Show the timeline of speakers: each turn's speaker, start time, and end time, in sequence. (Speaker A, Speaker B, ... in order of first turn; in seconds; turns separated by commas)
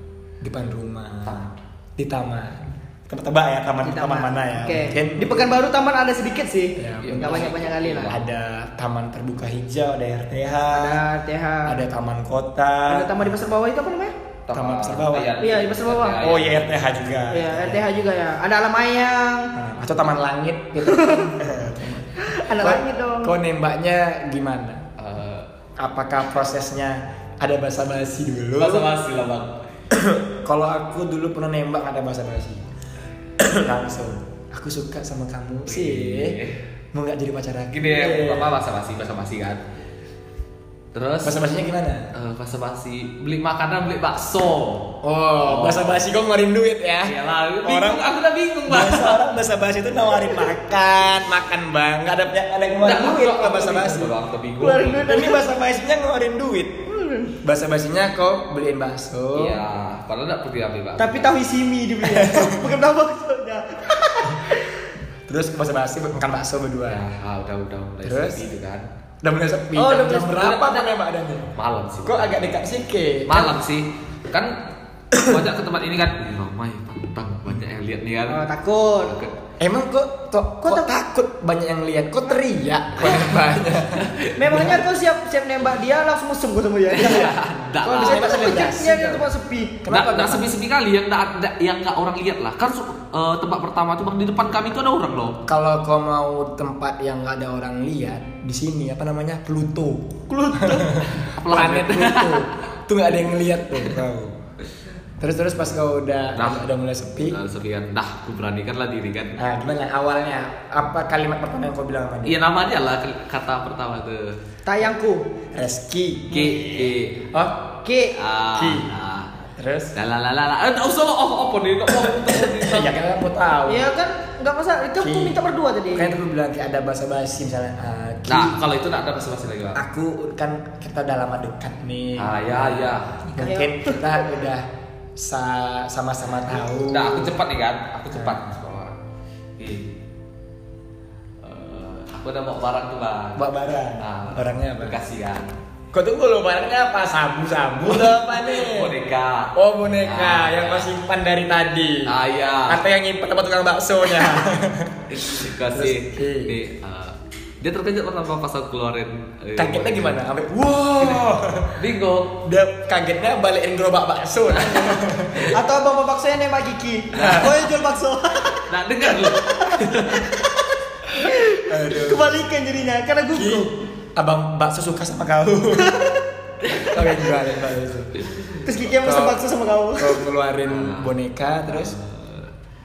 Speaker A: 0.4-5.6, Speaker B: 3.8-8.2, Speaker A: 6.8-7.5, Speaker C: 7.0-8.2, Speaker A: 8.0-11.0, Speaker B: 10.7-11.8, Speaker A: 11.6-13.3, Speaker B: 12.9-14.1, Speaker C: 14.5-16.9, Speaker A: 14.5-15.4, Speaker B: 15.4-16.2, Speaker A: 16.2-17.9, Speaker B: 17.3-19.5, Speaker A: 19.5-24.8, Speaker B: 20.8-21.4, Speaker B: 22.2-23.3, Speaker C: 25.0-25.5, Speaker A: 25.8-28.9, Speaker C: 28.6-29.6, Speaker A: 29.9-32.6, Speaker A: 33.4-36.4, Speaker C: 35.6-36.6, Speaker A: 36.9-38.6, Speaker C: 37.7-39.6, Speaker C: 40.9-41.4, Speaker A: 41.2-42.1, Speaker C: 42.1-46.0, Speaker A: 45.0-48.1, Speaker C: 47.0-49.3, Speaker A: 48.7-54.1, Speaker C: 52.8-55.2, Speaker B: 54.6-55.4, Speaker A: 55.1-56.9, Speaker B: 56.9-57.4, Speaker A: 57.4-59.6, Speaker C: 59.3-61.3, Speaker B: 61.0-64.9, Speaker A: 62.0-62.8, Speaker A: 65.3-67.0, Speaker C: 66.9-68.9, Speaker A: 68.0-68.4, Speaker A: 69.2-71.5, Speaker B: 69.8-70.4, Speaker C: 70.3-70.9, Speaker C: 71.5-72.5, Speaker A: 72.0-73.6, Speaker C: 73.2-74.6, Speaker A: 75.1-75.4, Speaker C: 75.1-78.4, Speaker B: 78.3-79.2, Speaker C: 79.0-79.3, Speaker A: 79.6-84.8, Speaker C: 83.8-84.8, Speaker B: 84.4-87.3, Speaker C: 86.9-88.5, Speaker A: 87.0-89.3, Speaker B: 88.0-89.8, Speaker A: 89.8-90.5, Speaker C: 89.9-95.4, Speaker A: 95.5-104.4, Speaker B: 100.3-101.0, Speaker C: 101.2-102.6, Speaker A: 105.2-107.4, Speaker C: 106.3-106.7, Speaker C: 107.2-109.4, Speaker A: 109.4-112.4, Speaker C: 112.2-114.4, Speaker B: 114.7-115.4, Speaker A: 115.5-117.8, Speaker C: 116.3-117.3, Speaker B: 117.8-118.2, Speaker C: 118.1-119.3, Speaker A: 118.5-118.9, Speaker A: 119.6-119.9, Speaker C: 119.9-122.9, Speaker A: 122.1-123.9, Speaker B: 123.7-126.2, Speaker A: 125.0-125.4, Speaker A: 125.9-128.6, Speaker C: 128.3-129.8, Speaker A: 129.7-137.3, Speaker C: 132.2-133.4, Speaker B: 133.4-134.3, Speaker C: 136.9-139.0, Speaker A: 138.1-138.4, Speaker C: 139.6-139.9, Speaker C: 141.4-145.5, Speaker A: 143.3-144.9, Speaker A: 145.9-148.9, Speaker C: 147.9-150.9, Speaker A: 149.5-152.1, Speaker C: 152.0-152.8, Speaker A: 152.7-156.6, Speaker C: 155.1-160.2, Speaker A: 159.6-161.8, Speaker C: 161.7-162.4, Speaker A: 162.4-165.6, Speaker C: 164.5-165.5, Speaker B: 165.5-173.7, Speaker C: 167.1-167.7, Speaker A: 167.2-167.5, Speaker C: 168.5-170.4, Speaker A: 171.7-172.3, Speaker A: 173.3-176.2, Speaker B: 175.8-176.1, Speaker C: 176.6-176.9, Speaker A: 176.8-178.2, Speaker C: 178.1-178.8, Speaker B: 178.6-180.2, Speaker A: 178.8-179.4, Speaker A: 180.0-181.9, Speaker C: 180.7-181.1, Speaker C: 181.7-182.5